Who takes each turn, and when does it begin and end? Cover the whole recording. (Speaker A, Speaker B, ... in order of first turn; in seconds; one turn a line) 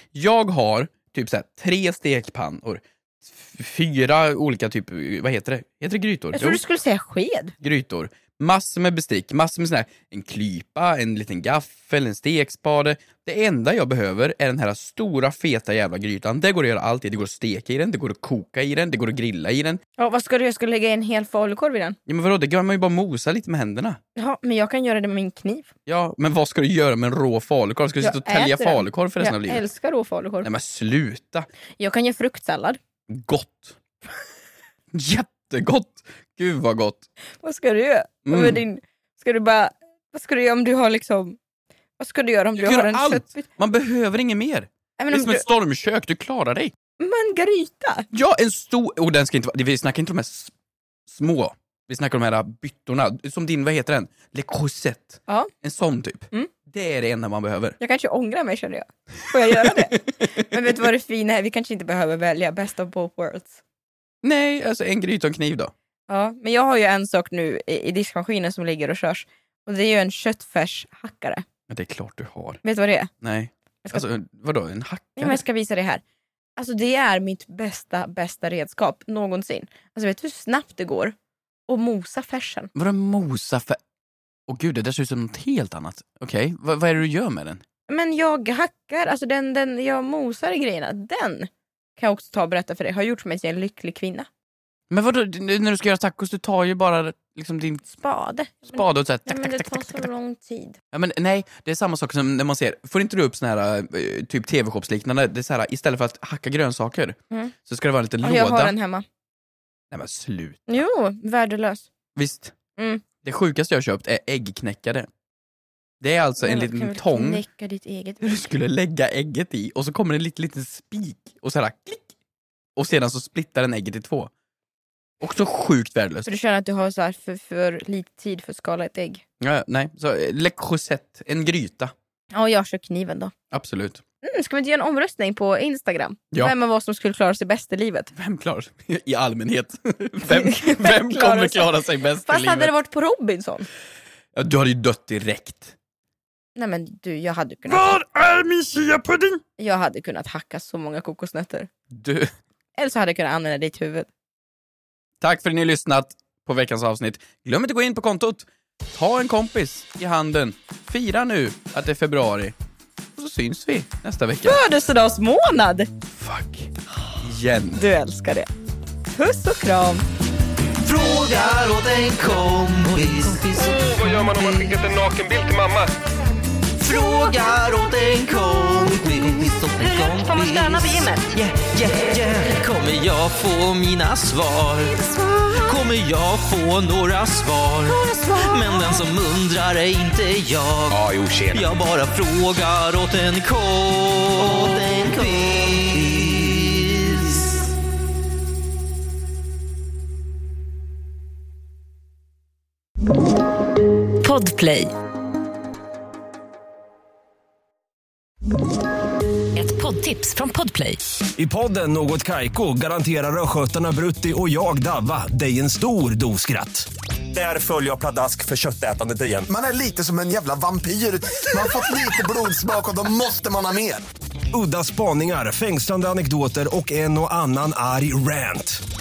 Speaker A: 0.1-6.6
Speaker B: 6.3-7.5
Speaker A: 7.6-19.8
Speaker B: 20.0-22.0
Speaker A: 22.1-24.0
Speaker B: 24.1-25.7
Speaker A: 25.9-29.6
Speaker B: 28.0-30.5
Speaker A: 30.4-31.5
Speaker B: 31.8-32.8
Speaker A: 33.1-33.8
Speaker A: 34.9-37.1
Speaker B: 37.4-41.4
Speaker A: 38.2-38.6
Speaker B: 42.0-43.4
Speaker A: 42.5-46.7
Speaker B: 45.0-45.4
Speaker B: 47.0-48.1
Speaker A: 48.1-50.5
Speaker A: 51.1-57.8
Speaker B: 57.8-63.6
Speaker A: 59.5-60.0
Speaker A: 64.2-65.7
Speaker B: 66.1-71.4
Speaker A: 71.7-72.6
Speaker B: 72.6-73.1
Speaker A: 73.2-75.4
Speaker B: 75.2-76.0
Speaker B: 76.6-81.1
Speaker B: 81.7-82.7
Speaker A: 82.7-83.8
Speaker A: 84.5-87.6
Speaker B: 87.9-94.3
Speaker A: 94.9-97.8
Speaker B: 97.9-100.8
Speaker A: 98.7-100.1
Speaker A: 100.9-108.7
Speaker B: 108.2-109.0
Speaker A: 109.9-110.7
Speaker B: 110.7-111.9
Speaker A: 112.2-112.5
Speaker B: 112.8-113.0
Speaker A: 113.2-115.1
Speaker A: 116.0-117.4
Speaker B: 116.4-118.5
Speaker A: 118.2-122.1
Speaker A: 122.8-124.3
Speaker A: 125.2-126.3
Speaker B: 126.2-129.2
Speaker A: 129.4-131.9
Speaker B: 132.3-133.3
Speaker A: 133.5-134.0
Speaker B: 134.2-138.1
Speaker A: 138.1-142.7
Speaker B: 140.3-141.7
Speaker B: 142.2-143.7
Speaker A: 144.3-145.7
Speaker B: 146.6-147.9
Speaker A: 147.7-149.4
Speaker B: 149.6-151.7
Speaker A: 151.9-152.3
Speaker B: 152.8-154.1
Speaker A: 155.2-162.5
Speaker A: 163.2-164.6
Speaker B: 164.4-165.9
Speaker A: 166.1-167.8
Speaker B: 167.7-168.5
Speaker B: 169.1-170.0
Speaker C: 170.8-174.7
Speaker D: 173.6-175.9
Speaker C: 176.8-185.0
Speaker B: 179.7-181.2
Speaker B: 185.0-185.6
Speaker C: 185.5-197.6
Speaker B: 187.8-189.0
Speaker E: 204.2-204.9
Speaker E: 209.5-211.0
Speaker F: 211.3-219.4
Speaker G: 219.5-224.0
Speaker F: 224.5-228.8